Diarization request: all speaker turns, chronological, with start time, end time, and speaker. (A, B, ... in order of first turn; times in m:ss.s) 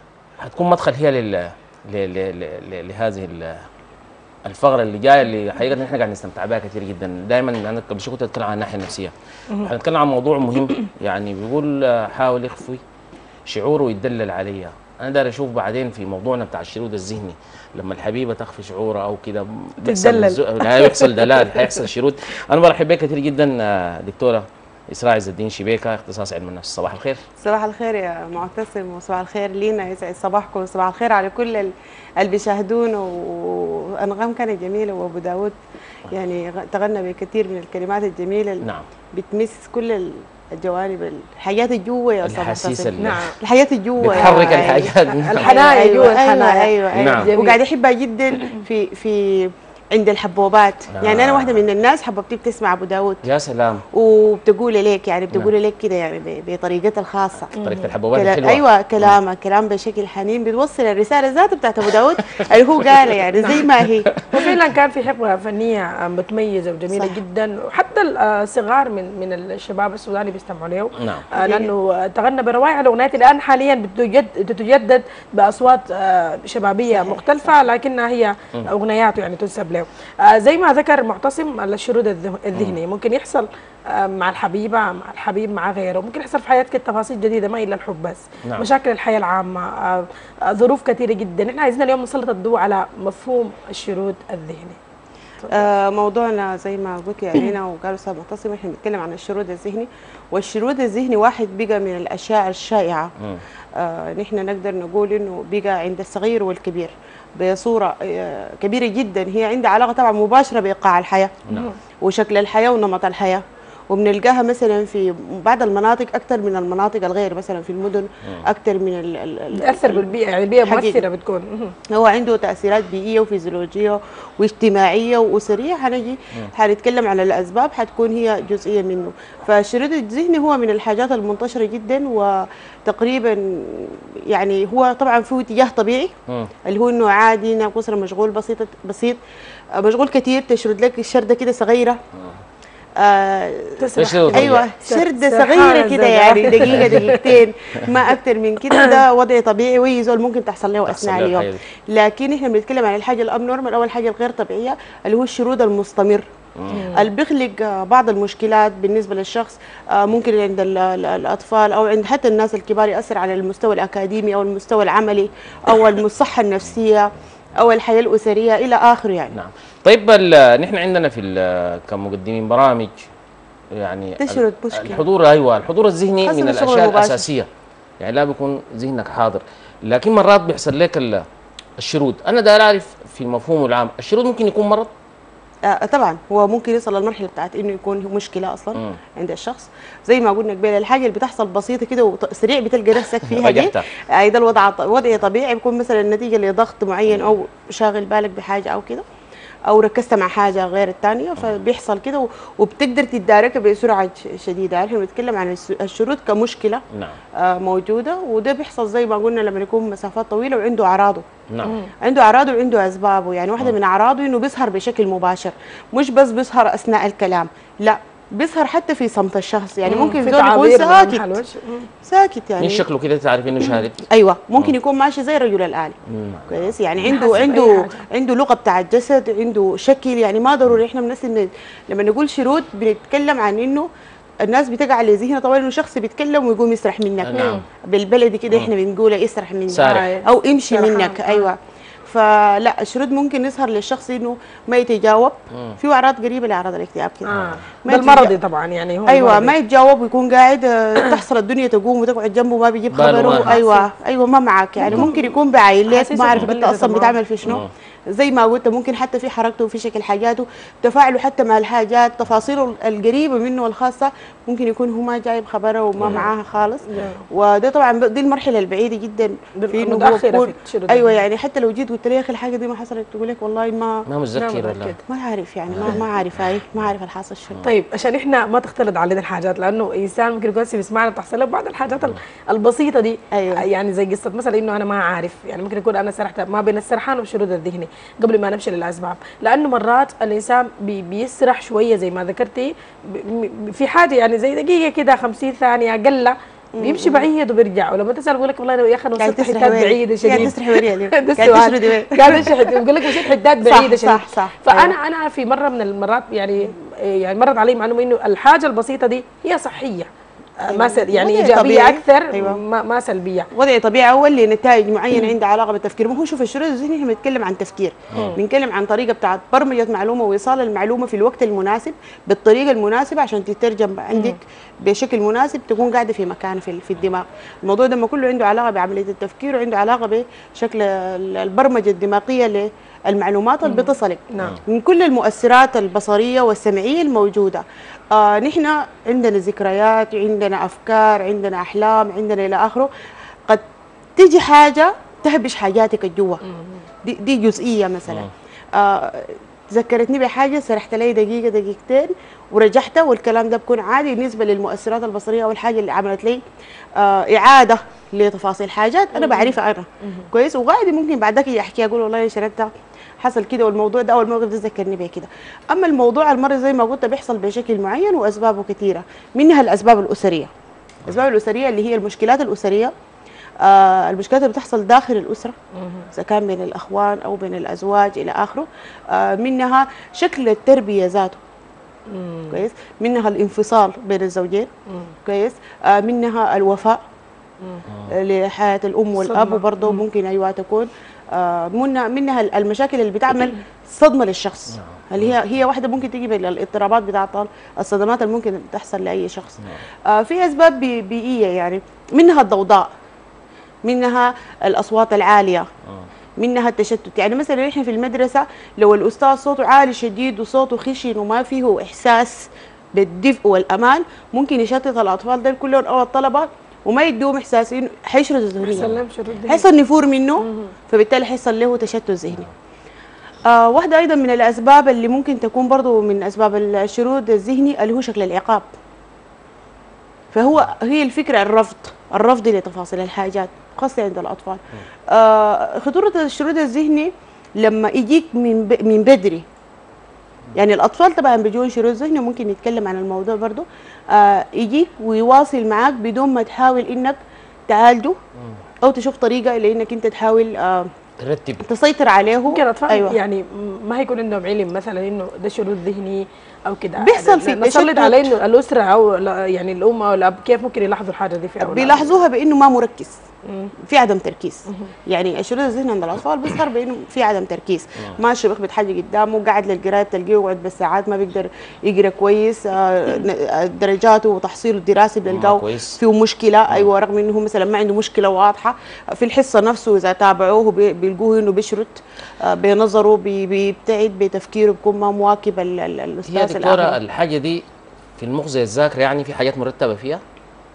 0:00.4-0:03.7 A
0:04.5-0:12.8 A
0:13.5-0:27.2 A
0:19.8-0:21.7 B
0:27.4-0:35.6 C
0:36.1-0:53.2 C
0:38.6-0:38.9 A
0:42.2-0:43.3 A
0:43.0-0:43.4 B
0:44.0-0:45.7 A
0:44.1-0:47.6 B
0:46.9-0:47.3 A
0:50.9-0:51.6 A
0:53.2-0:53.8 A
0:53.9-0:57.5 C
0:57.6-0:57.9 B
0:57.6-0:59.2 A
0:58.1-1:04.1 C
1:02.4-1:04.6 A
1:04.3-1:34.8 B
1:06.9-1:07.2 C
1:11.0-1:11.3 A
1:11.4-1:11.7 C
1:16.9-1:17.6 C
1:22.5-1:22.8 A
1:35.5-1:43.1 C
1:43.8-1:51.3 C
1:51.5-1:51.7 A
1:51.5-1:51.8 B
1:52.0-2:00.1 C
1:59.6-2:01.7 B
2:00.6-2:01.0 C
2:01.9-2:16.1 C
2:16.7-2:19.2 C
2:19.8-2:22.0 C
2:23.0-2:36.3 C
2:23.8-2:27.4 B
2:24.0-2:24.7 A
2:26.6-2:27.2 A
2:30.9-2:31.6 A
2:36.6-2:36.8 A
2:36.7-2:37.1 B
2:36.9-2:49.4 C
2:49.3-2:52.9 A
2:53.8-2:57.5 A
2:54.2-2:55.0 C
2:56.2-2:57.3 C
2:58.0-3:01.3 A
3:01.8-3:04.9 A
3:05.7-3:19.0 C
3:13.2-3:13.8 A
3:19.7-3:26.8 C
3:26.9-3:27.2 A
3:27.4-3:31.3 C
3:31.5-3:31.8 A
3:31.6-3:31.9 B
3:32.0-3:41.3 C
3:39.9-3:41.9 B
3:42.0-3:42.8 C
3:42.6-3:44.0 A
3:44.1-3:46.0 C
3:46.1-3:47.4 A
3:46.5-3:53.9 C
3:47.0-3:48.1 B
3:54.4-4:07.3 C
3:57.2-3:57.6 A
3:57.3-3:57.6 B
3:59.7-4:00.1 A
3:59.8-4:01.5 B
4:07.3-4:09.5 B
4:07.3-4:07.7 A
4:07.8-4:08.3 C
4:09.1-4:34.1 C
4:12.9-4:13.6 A
4:13.1-4:13.9 B
4:14.8-4:15.3 B
4:15.9-4:17.2 B
4:17.4-4:17.7 A
4:26.0-4:26.3 A
4:26.9-4:27.2 B
4:29.6-4:31.2 B
4:34.1-4:35.0 A
4:34.4-4:35.0 B
4:35.1-4:37.6 C
4:35.7-4:36.4 A
4:37.6-5:10.1 B
4:43.3-4:43.6 C
4:56.8-4:57.3 C
4:59.2-5:02.8 C
5:03.6-5:05.0 C
5:10.6-5:13.5 B
5:10.7-5:12.6 C
5:13.5-5:42.9 C
5:18.1-5:18.4 A
5:18.1-5:18.4 B
5:24.1-5:24.4 B
5:33.6-5:34.6 B
5:44.2-5:46.4 C
5:46.5-5:46.8 B
5:47.0-5:56.4 C
5:57.0-6:10.5 C
5:59.1-6:00.3 B
6:11.1-6:12.9 C
6:13.6-6:15.6 C
6:15.8-6:16.1 B
6:16.1-6:21.4 C
6:22.1-6:22.6 B
6:22.5-6:24.7 C
6:25.3-6:27.0 C
6:28.1-6:42.9 C
6:29.2-6:30.0 B
6:34.7-6:35.4 A
6:43.8-6:45.7 C
6:46.4-6:58.9 C
6:58.6-6:59.7 B
6:59.5-7:02.5 C
7:00.4-7:00.7 B
7:03.5-7:08.7 C
7:10.3-7:19.4 C
7:20.5-7:27.2 C
7:27.7-7:28.2 C
7:28.8-7:30.9 C
7:31.2-7:31.6 A
7:31.6-7:33.2 C
7:32.5-7:42.2 B
7:37.0-7:38.3 C
7:41.6-7:43.2 C
7:43.9-8:07.0 C
7:55.3-7:56.0 A
8:06.3-8:07.6 A
8:08.2-8:10.2 A